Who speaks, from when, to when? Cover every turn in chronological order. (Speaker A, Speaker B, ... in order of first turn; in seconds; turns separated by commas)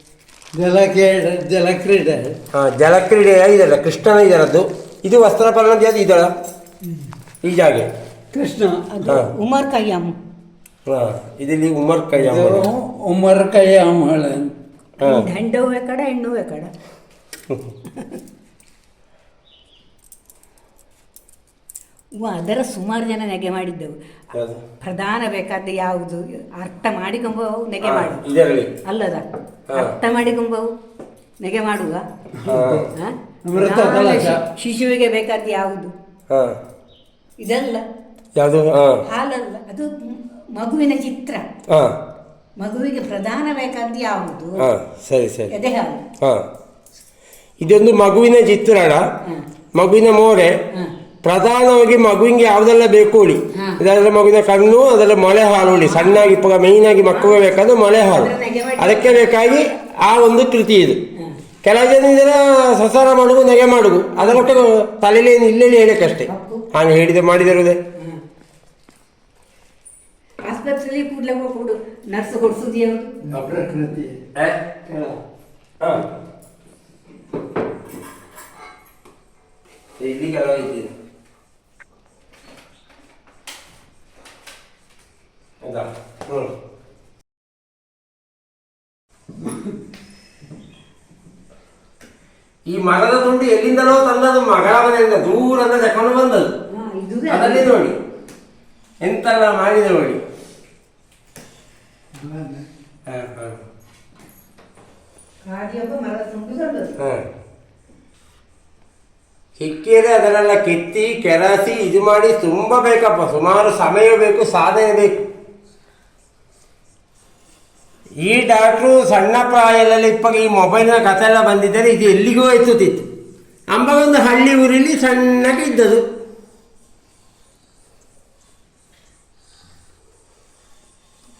Speaker A: 0.5-2.4, Speaker B: 2.5-6.3, Speaker B: 7.4-7.9, Speaker A: 8.3-9.1, Speaker C: 8.9-10.1, Speaker B: 10.9-12.7, Speaker A: 12.2-14.5, Speaker B: 15.0-15.3, Speaker C: 15.0-16.7, Speaker B: 17.5-17.7, Speaker C: 22.1-24.0, Speaker B: 24.3-24.6, Speaker C: 24.8-28.3, Speaker B: 27.8-28.7, Speaker C: 28.8-30.7, Speaker B: 29.7-30.0, Speaker C: 31.4-32.1, Speaker A: 32.4-32.8, Speaker B: 32.5-32.9, Speaker C: 32.9-35.9, Speaker A: 33.5-34.4, Speaker B: 36.3-36.6, Speaker C: 37.4-37.9, Speaker B: 38.3-39.0, Speaker C: 39.0-41.4, Speaker B: 41.7-42.0, Speaker C: 42.6-44.7, Speaker B: 44.6-45.5, Speaker C: 45.5-46.1, Speaker B: 46.2-46.5, Speaker B: 47.6-49.0, Speaker B: 49.7-50.6, Speaker B: 51.2-61.0, Speaker C: 53.5-53.8, Speaker C: 55.9-56.3, Speaker C: 57.1-57.4, Speaker C: 58.0-59.6, Speaker B: 61.6-67.8, Speaker C: 66.2-66.6, Speaker C: 68.0-68.2, Speaker C: 70.4-73.2, Speaker A: 73.2-74.2, Speaker B: 73.3-73.6, Speaker B: 74.3-74.6, Speaker A: 74.8-75.2, Speaker B: 75.8-76.0, Speaker B: 80.0-80.9, Speaker B: 85.6-86.5, Speaker B: 92.7-96.5, Speaker C: 96.7-97.7, Speaker B: 97.3-98.0, Speaker B: 99.0-100.2, Speaker A: 102.2-102.7, Speaker B: 103.1-103.6, Speaker C: 105.4-106.9, Speaker B: 107.0-107.3, Speaker B: 109.5-115.2, Speaker B: 118.2-123.1, Speaker B: 123.7-126.1